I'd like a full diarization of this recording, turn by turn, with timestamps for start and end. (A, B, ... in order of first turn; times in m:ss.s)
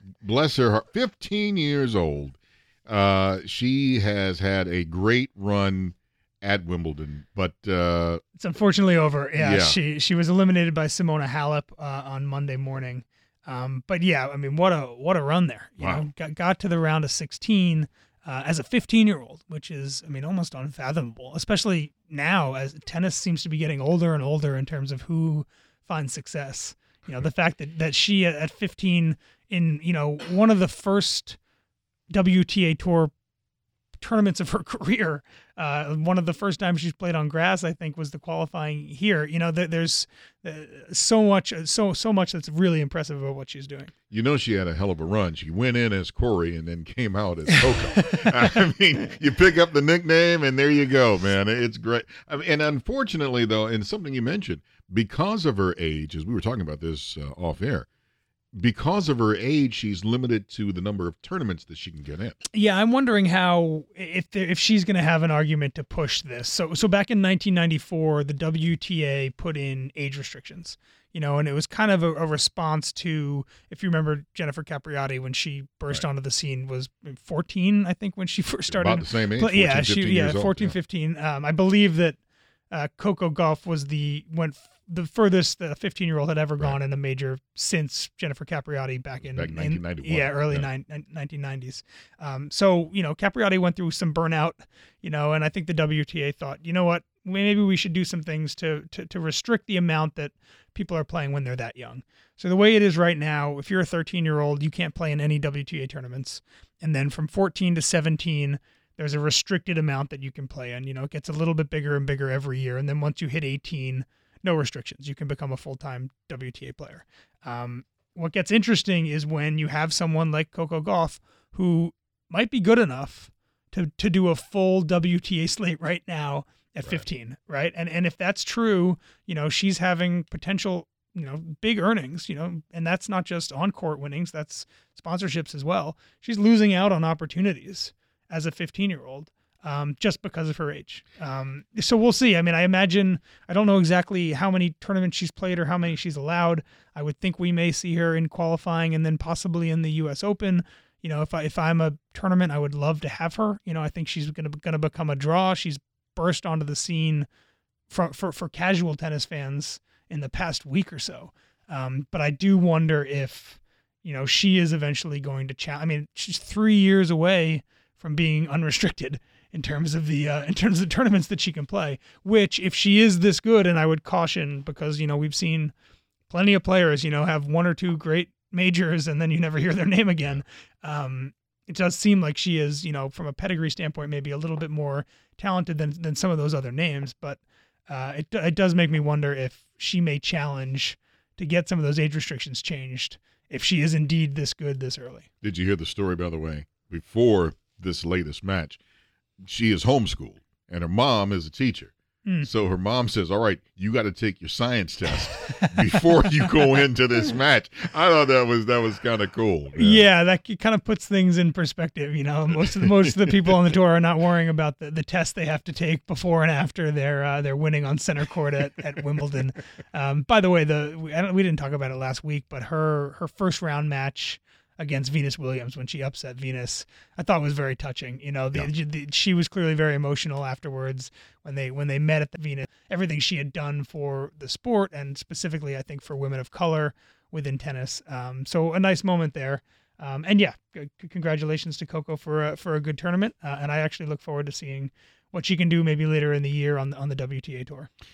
0:00.2-0:08.2 A
0:08.4-0:31.4 B
0:09.4-0:09.8 A
0:15.8-0:16.1 A
0:32.1-0:33.1 B
0:34.0-0:43.9 B
0:44.1-0:57.9 A
0:58.6-1:02.4 A
1:02.5-1:22.2 B
1:18.7-1:20.8 A
1:22.7-2:37.3 B
1:29.2-1:30.7 A
2:37.9-2:55.7 B
2:56.3-3:15.3 B
3:15.4-3:18.8 A
3:19.4-3:30.0 A
3:25.4-3:26.8 B
3:29.8-4:07.9 B
3:32.8-3:33.6 A